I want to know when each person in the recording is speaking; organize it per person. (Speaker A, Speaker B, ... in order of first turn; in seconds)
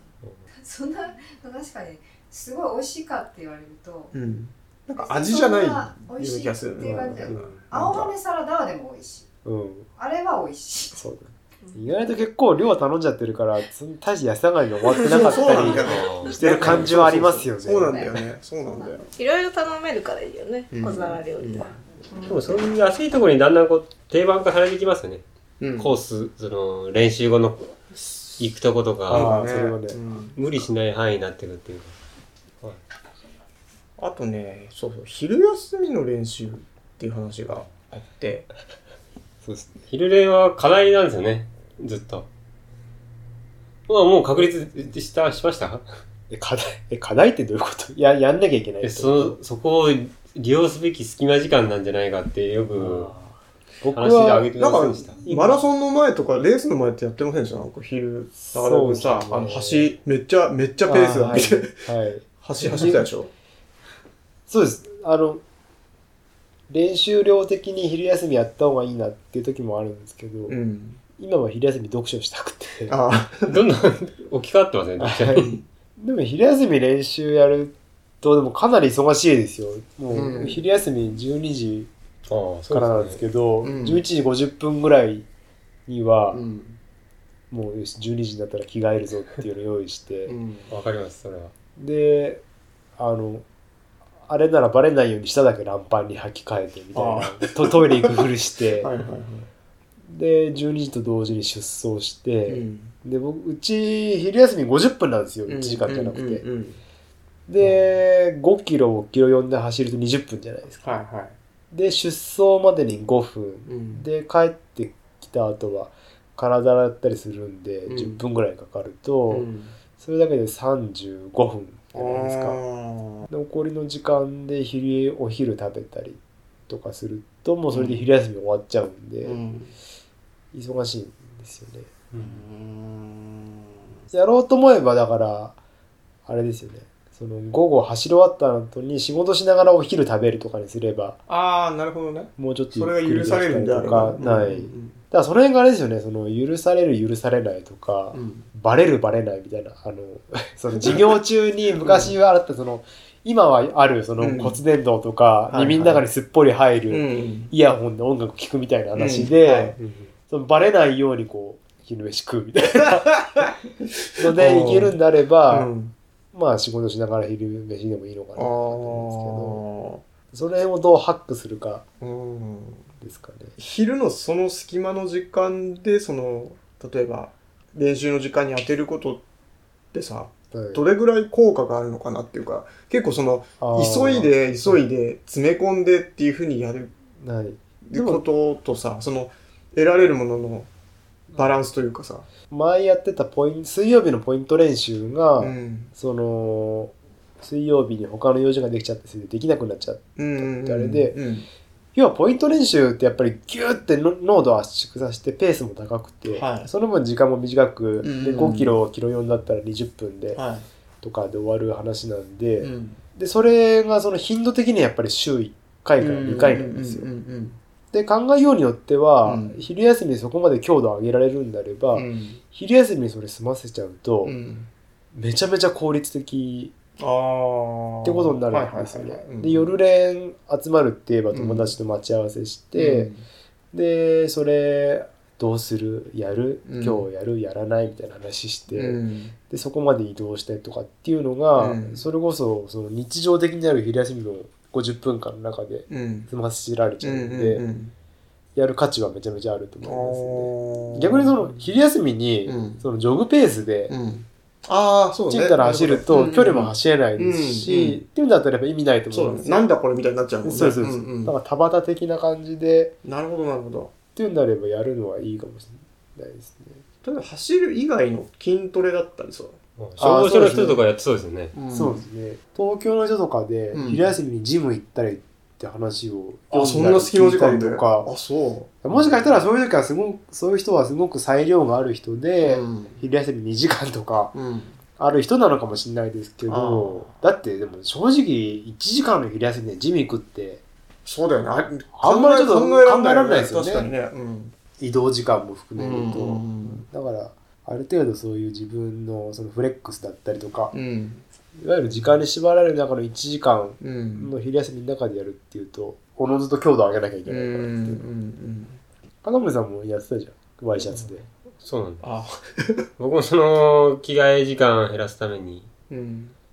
Speaker A: 0.5-4.2, 5.0-9.3, 10.0-11.0, 17.8-19.1
Speaker B: 4.1-8.2, 14.9-19.1, 20.7-21.7, 25.6-25.9, 29.1-30.4, 34.0-38.5, 54.6-61.8, 62.4-63.3, 70.5-71.0, 72.9-73.6, 75.4-75.6, 80.1-80.6, 83.6-84.0, 86.3-86.8, 90.3-90.7, 97.0-97.9, 98.8-99.5, 102.5-102.9, 105.5-106.8, 110.8-111.4, 113.7-114.0, 117.9-118.2, 119.3-119.7, 121.9-123.3, 127.7-128.1, 129.2-129.7, 132.2-133.6, 141.3-145.0, 148.1-148.5, 150.8-151.0, 151.8-152.2, 154.2-154.6, 155.5-156.0, 156.9-157.5, 158.9-160.0, 164.3-165.0, 165.5-165.9, 168.4-170.0, 172.0-172.9, 173.6-179.2, 179.9-186.9, 187.8-190.7, 191.3-192.3, 195.4-195.9, 200.2-201.5, 206.3-206.7, 208.0-208.8, 210.3-210.7, 212.6-213.0, 216.0-217.6, 219.2-219.6, 221.9-222.4, 224.2-224.7, 227.0-229.7, 231.3-231.7, 232.8-233.2, 236.7-237.1, 238.7-239.3, 241.6-242.0, 245.9-246.3, 247.0-247.9, 249.8-251.7, 252.5-252.8, 253.9-258.0, 259.1-261.3, 263.0-263.9, 267.0-269.6, 271.5-272.0, 273.7-274.1, 276.5-279.4, 282.4-283.0, 284.3-284.8, 286.5-287.1, 291.1-294.6, 295.8-296.9, 300.7-301.2, 303.8-304.3, 307.3-308.8, 312.0-312.8, 315.9-316.4
Speaker C: 6.8-7.6, 9.4-9.9, 10.9-18.0, 29.1-30.0, 39.4-39.8, 46.3-49.4, 52.8-54.5, 55.2-55.6, 58.5-59.9, 60.9-63.1, 64.5-65.4, 66.7-70.6, 71.2-73.0, 75.0-75.5, 76.0-81.9, 82.7-85.3, 85.9-86.4, 87.5-90.3, 91.8-92.4, 93.0-93.4, 94.3-98.9, 100.1-106.4, 107.5-110.9, 111.7-122.6, 123.3-129.4, 130.5-131.9, 134.1-135.6, 136.3-141.2, 142.4-159.8, 160.3-163.5, 164.2-165.7, 166.3-169.6, 170.3-171.8, 173.0-173.6, 180.5-180.8, 183.6-184.8, 187.2-188.2, 192.5-201.2, 201.9-210.4, 211.0-217.1, 217.9-224.4, 225.1-226.7, 228.0-233.1, 233.7-247.7, 248.6-253.9, 255.3-259.6, 260.4-262.9, 264.1-266.8, 270.0-270.8, 271.7-278.1, 278.8-284.4, 285.0-290.6, 291.9-293.9, 294.8-300.8, 301.6-308.0, 309.2-311.2
Speaker D: 11.6-11.9, 19.2-22.4
Speaker E: 15.5-16.9, 22.3-25.2, 25.8-27.7, 28.4-29.3, 30.4-31.9, 39.9-42.3, 43.9-45.9, 48.8-53.1, 54.0-55.2, 73.5-75.5, 82.3-83.2, 90.7-91.5, 269.8-271.6, 311.6-312.1, 313.0-315.7